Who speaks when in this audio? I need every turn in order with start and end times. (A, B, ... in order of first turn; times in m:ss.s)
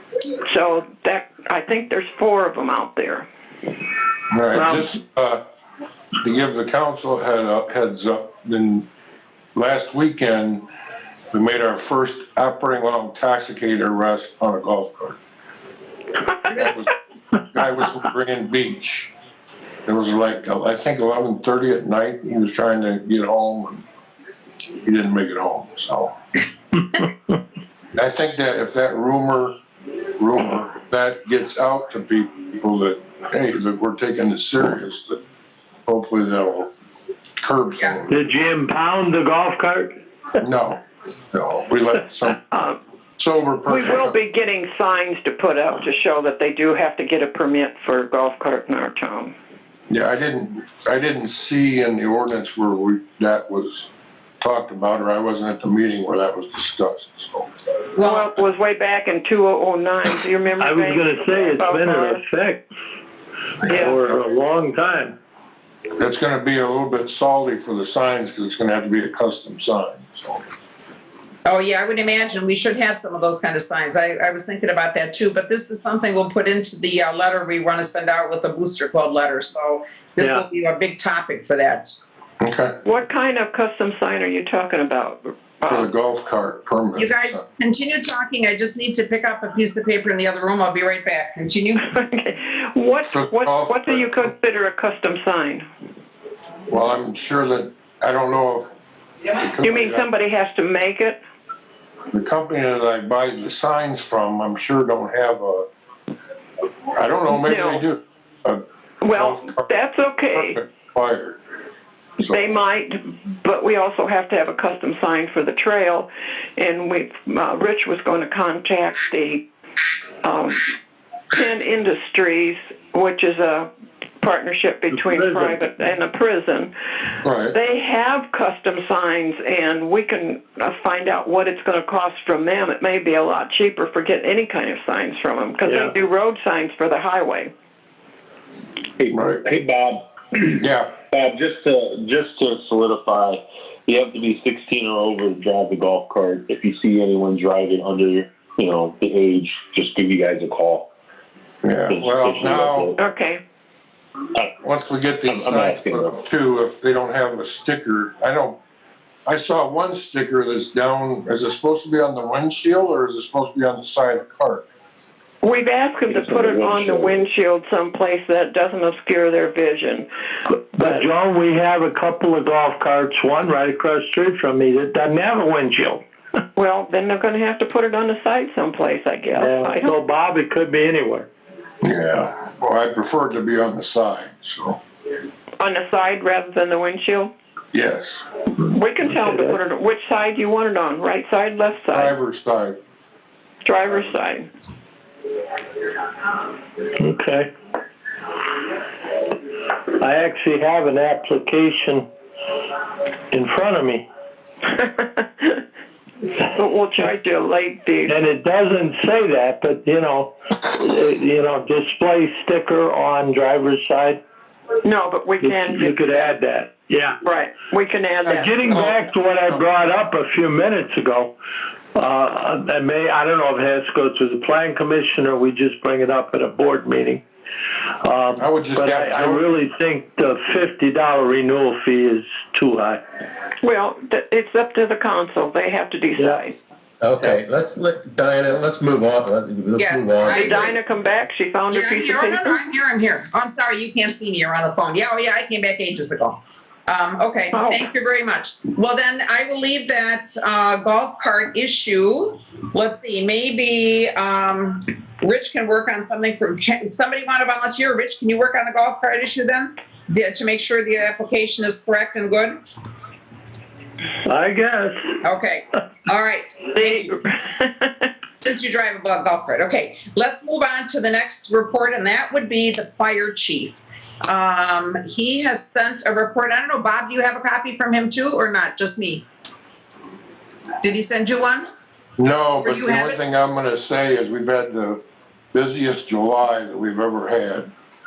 0:00.4-0:03.2 A
0:04.3-0:05.4 B
0:04.5-0:04.9 C
0:06.2-0:08.8 B
0:09.5-0:10.6 B
0:11.3-0:15.2 B
0:16.5-0:16.9 B
0:17.5-0:19.1 B
0:19.8-0:23.8 B
0:24.8-0:26.1 B
0:27.9-0:29.5 B
0:30.2-0:35.2 B
0:35.9-0:36.7 B
0:37.4-0:38.2 B
0:38.1-0:39.9 C
0:40.4-0:42.4 B
0:42.5-0:42.8 A
0:43.2-0:44.1 B
0:43.7-0:49.3 A
0:49.9-0:53.9 B
0:54.4-0:57.5 B
0:58.0-0:58.2 D
0:58.0-1:02.2 A
1:00.6-1:02.6 C
1:03.6-1:04.2 B
1:03.7-1:04.0 A
1:03.7-1:05.2 C
1:06.0-1:10.4 B
1:11.4-1:22.0 D
1:20.2-1:20.4 C
1:22.4-1:22.8 B
1:22.8-1:25.9 A
1:25.6-1:27.4 B
1:27.0-1:31.8 D
1:31.9-1:35.7 A
1:33.1-1:34.1 B
1:36.7-1:38.8 B
1:39.3-1:40.0 B
1:39.6-1:41.2 A
1:42.1-1:45.6 B
1:46.9-1:49.7 B
1:47.4-1:47.8 A
1:49.0-1:50.6 A
1:50.3-1:51.4 B
1:52.2-1:52.6 B
1:52.2-1:59.4 A
2:00.2-2:00.7 A
2:01.3-2:03.7 A
2:04.2-2:06.7 A
2:05.0-2:05.6 C
2:07.2-2:07.5 B
2:07.5-2:17.5 A
2:15.6-2:15.9 C
2:19.0-2:30.9 E
2:19.1-2:19.4 B
2:20.6-2:20.9 B
2:31.6-2:32.9 B
2:31.9-2:33.0 E
2:33.0-2:33.4 A
2:34.6-2:38.6 B
2:35.3-2:36.2 E
2:39.2-2:44.6 B
2:45.4-2:50.1 A
2:46.1-2:47.2 E
2:50.7-2:56.0 C
2:56.6-2:59.9 A
2:59.4-3:01.3 C
3:01.8-3:04.8 B
3:05.6-3:07.3 A
3:07.7-3:08.2 B
3:08.6-3:12.1 A
3:09.0-3:09.6 C
3:11.9-3:12.8 B
3:13.6-3:14.5 A
3:17.0-3:17.5 C
3:20.0-3:22.0 C
3:23.3-3:24.0 C
3:24.7-3:25.6 A
3:26.4-3:28.1 A
3:28.0-3:34.2 C
3:34.8-3:36.0 A
3:35.4-3:37.2 C
3:37.2-3:38.8 A
3:38.3-3:41.3 C
3:38.7-3:39.6 B
3:41.9-3:47.2 C
3:48.0-3:53.0 C
3:48.4-3:49.5 B
3:53.6-3:56.6 A
3:56.2-3:56.4 C
3:57.0-4:00.5 F
3:59.8-4:00.8 D
4:00.3-4:02.6 A
4:01.7-4:22.6 D
4:07.5-4:07.9 A
4:24.2-4:25.0 C
4:25.2-4:27.1 D
4:26.7-4:28.1 A
4:28.4-4:39.2 D
4:40.8-4:41.7 D
4:42.2-4:45.0 B
4:42.6-4:43.2 D
4:45.5-4:47.7 B